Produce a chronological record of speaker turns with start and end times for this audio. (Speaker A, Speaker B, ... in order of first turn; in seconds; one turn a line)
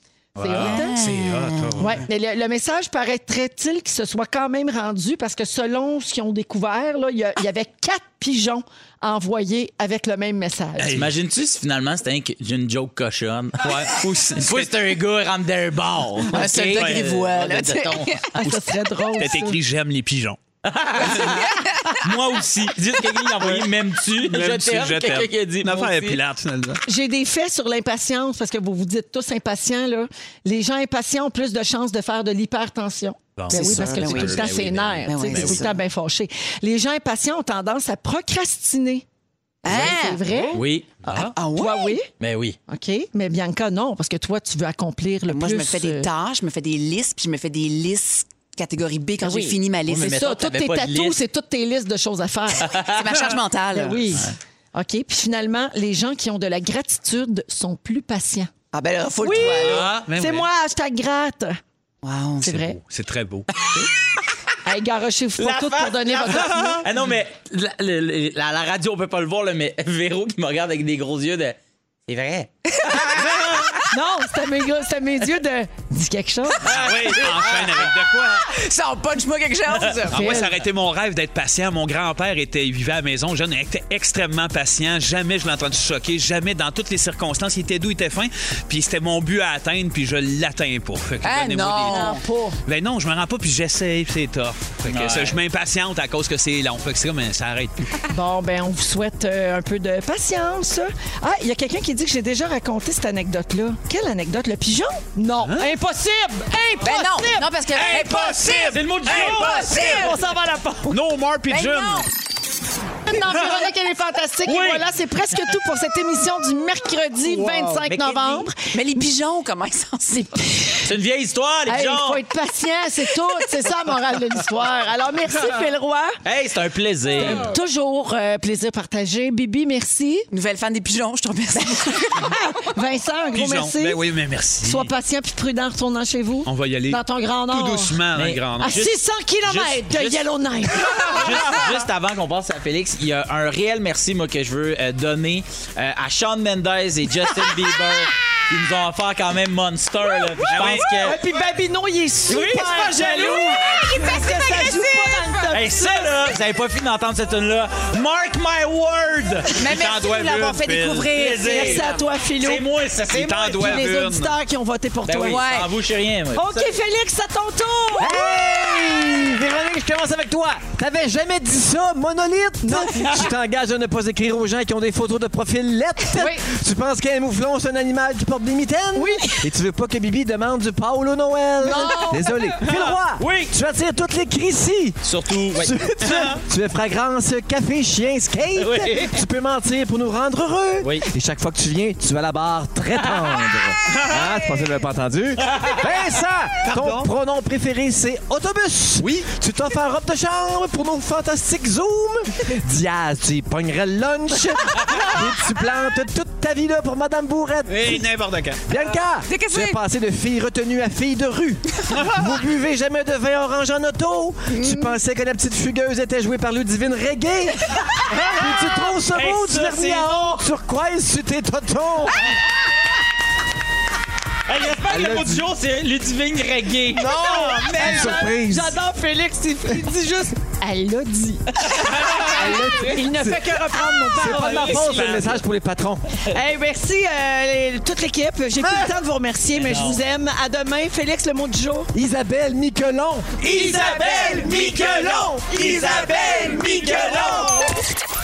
Speaker A: 0.3-1.0
Speaker B: 0.4-2.0
Speaker C: 0.5-1.9
Speaker A: 1.8-11.0
Speaker B: 10.8-11.1
Speaker D: 10.9-18.2
Speaker B: 13.6-14.7
Speaker C: 16.3-18.3
Speaker B: 16.3-17.0
Speaker A: 18.3-19.6
Speaker B: 18.4-20.4
Speaker D: 20.6-26.2
Speaker B: 21.0-21.4
Speaker C: 21.2-21.8
Speaker B: 21.9-22.7
Speaker B: 23.4-26.8
Speaker A: 26.9-39.0
Speaker D: 33.4-35.7
Speaker B: 33.4-34.2
Speaker C: 33.5-34.3
Speaker C: 35.0-35.7
Speaker C: 39.6-40.2
Speaker A: 39.6-40.6
Speaker D: 40.5-41.0
Speaker B: 41.0-41.3
Speaker C: 41.0-42.0
Speaker A: 41.2-42.1
Speaker D: 42.2-42.6
Speaker A: 42.7-46.1
Speaker C: 45.3-50.3
Speaker A: 49.2-52.7
Speaker D: 49.9-51.2
Speaker D: 52.6-53.0
Speaker C: 52.9-54.2
Speaker A: 53.7-58.5
Speaker C: 58.7-59.9
Speaker A: 59.2-61.6
Speaker B: 59.4-60.5
Speaker C: 62.0-62.5
Speaker A: 62.4-62.8
Speaker B: 62.4-63.5
Speaker A: 64.6-66.9
Speaker D: 65.4-73.3
Speaker B: 66.5-66.8
Speaker C: 72.8-73.8
Speaker A: 73.9-76.7
Speaker D: 76.7-77.9
Speaker B: 76.7-78.5
Speaker C: 77.1-80.3
Speaker B: 80.1-92.1
Speaker A: 80.1-80.6
Speaker C: 91.2-92.2
Speaker A: 91.8-92.6
Speaker B: 92.7-97.8
Speaker D: 94.9-95.4
Speaker A: 98.1-111.0
Speaker B: 105.4-105.7
Speaker C: 106.8-110.2
Speaker B: 107.8-110.1
Speaker D: 108.4-109.8
Speaker B: 110.8-112.1
Speaker C: 111.5-112.1
Speaker A: 113.0-119.1
Speaker B: 113.1-113.6
Speaker B: 114.5-114.9
Speaker B: 117.3-117.6
Speaker D: 117.8-118.4
Speaker C: 118.5-120.4
Speaker A: 120.1-120.9
Speaker D: 120.8-122.2
Speaker A: 121.7-126.2
Speaker D: 126.2-127.5
Speaker A: 127.2-130.3
Speaker B: 127.2-127.4
Speaker C: 130.3-132.4
Speaker A: 131.5-134.0
Speaker B: 133.3-134.9
Speaker A: 134.6-138.0
Speaker B: 136.4-138.8
Speaker D: 138.1-140.2
Speaker A: 138.6-141.6
Speaker B: 141.0-141.7
Speaker D: 141.1-151.2
Speaker A: 150.4-156.1
Speaker B: 150.5-151.2
Speaker D: 152.3-153.4
Speaker C: 152.7-155.5
Speaker D: 155.5-159.7
Speaker C: 159.6-162.0
Speaker B: 159.7-161.1
Speaker D: 161.1-163.7
Speaker A: 161.4-162.7
Speaker B: 163.1-164.3
Speaker A: 163.4-165.4
Speaker D: 165.1-166.7
Speaker C: 165.2-165.7
Speaker A: 166.3-168.6
Speaker E: 168.0-185.0
Speaker A: 172.6-173.2
Speaker C: 176.1-176.4
Speaker A: 178.9-179.5
Speaker A: 181.6-182.5
Speaker C: 181.6-182.3
Speaker B: 182.6-183.0
Speaker D: 183.2-183.5
Speaker D: 185.0-185.8
Speaker E: 185.6-208.1
Speaker B: 186.0-186.4
Speaker D: 188.6-189.2
Speaker D: 190.8-191.1
Speaker B: 193.8-194.4
Speaker D: 195.4-195.8
Speaker B: 196.6-197.1
Speaker B: 199.0-199.3
Speaker B: 204.8-205.1
Speaker B: 207.7-208.6
Speaker E: 208.7-222.3
Speaker C: 209.3-209.8
Speaker B: 211.9-212.4
Speaker C: 214.5-214.9
Speaker D: 219.1-220.4
Speaker D: 224.4-227.5
Speaker E: 224.9-225.4
Speaker A: 226.9-235.1
Speaker B: 227.0-228.1
Speaker E: 227.5-228.8
Speaker D: 231.7-232.3
Speaker B: 231.7-232.5
Speaker E: 232.3-233.5
Speaker E: 234.2-236.2
Speaker B: 234.2-235.4
Speaker D: 234.3-235.3
Speaker A: 236.3-241.9
Speaker E: 238.6-238.9
Speaker D: 239.6-240.0
Speaker E: 241.9-245.4
Speaker D: 243.4-247.6
Speaker A: 243.4-247.7